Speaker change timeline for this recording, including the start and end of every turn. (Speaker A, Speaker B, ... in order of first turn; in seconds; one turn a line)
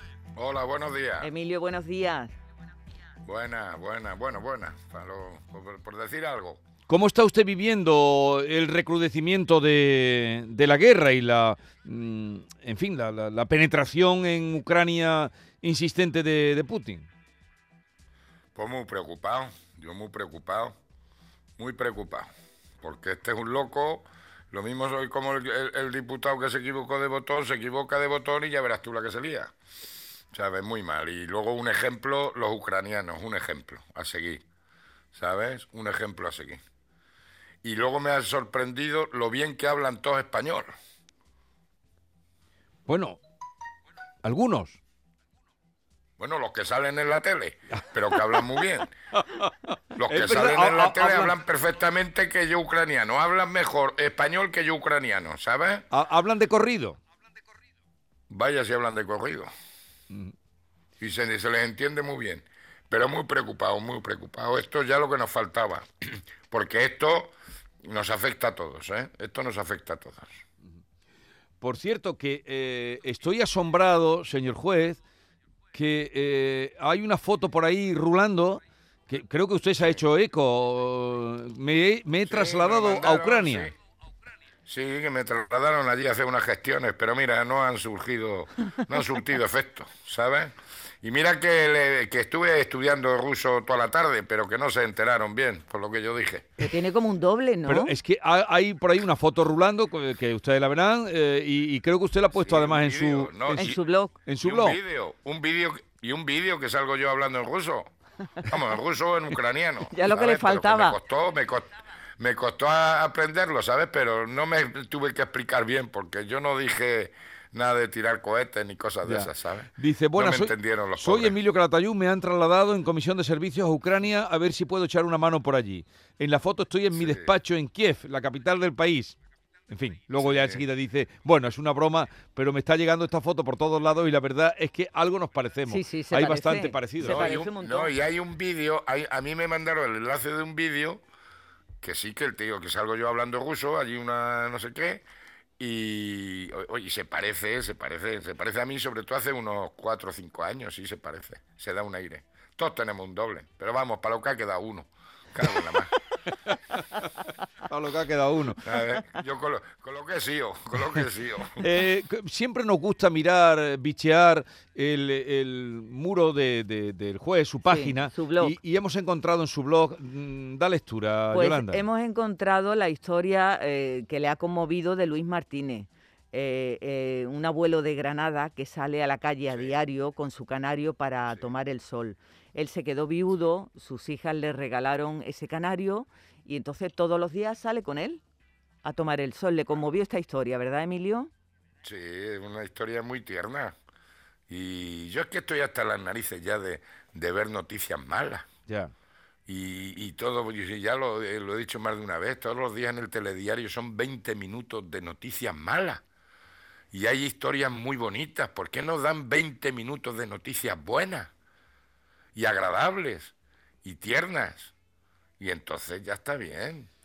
Speaker A: 0.3-1.3
Speaker B: 1.2-2.3
Speaker A: 3.2-6.6
Speaker C: 6.9-17.1
Speaker A: 18.5-20.8
Speaker A: 21.6-22.3
Speaker A: 22.8-29.5
Speaker A: 30.3-34.4
Speaker A: 35.1-36.6
Speaker A: 37.6-40.7
Speaker C: 42.9-43.2
Speaker C: 44.2-44.8
Speaker A: 46.2-48.9
Speaker A: 50.0-55.9
Speaker C: 50.1-51.3
Speaker C: 55.9-57.0
Speaker A: 58.3-59.5
Speaker A: 61.0-70.4
Speaker C: 71.6-75.0
Speaker C: 75.7-83.7
Speaker A: 82.2-83.7
Speaker A: 84.7-96.5
Speaker B: 96.6-97.9
Speaker C: 97.7-104.8
Speaker A: 102.3-103.8
Speaker B: 103.5-104.2
Speaker A: 104.4-107.9
Speaker A: 108.4-121.4
Speaker B: 109.9-111.0
Speaker C: 119.0-129.2
Speaker A: 126.9-127.3
Speaker C: 129.7-137.4
Speaker A: 130.2-130.7
Speaker B: 135.7-137.9
Speaker A: 137.0-141.0
Speaker A: 141.8-145.0
Speaker A: 145.6-155.9
Speaker C: 156.2-157.0
Speaker C: 157.6-158.6
Speaker A: 158.6-161.6
Speaker C: 161.6-171.8
Speaker B: 167.7-168.6
Speaker B: 171.3-188.2
Speaker A: 179.5-179.8
Speaker B: 188.8-191.3
Speaker A: 191.8-193.7
Speaker A: 194.5-198.5
Speaker C: 198.7-198.9
Speaker A: 199.5-206.0
Speaker A: 206.9-211.3
Speaker A: 212.3-214.7
Speaker A: 215.4-216.9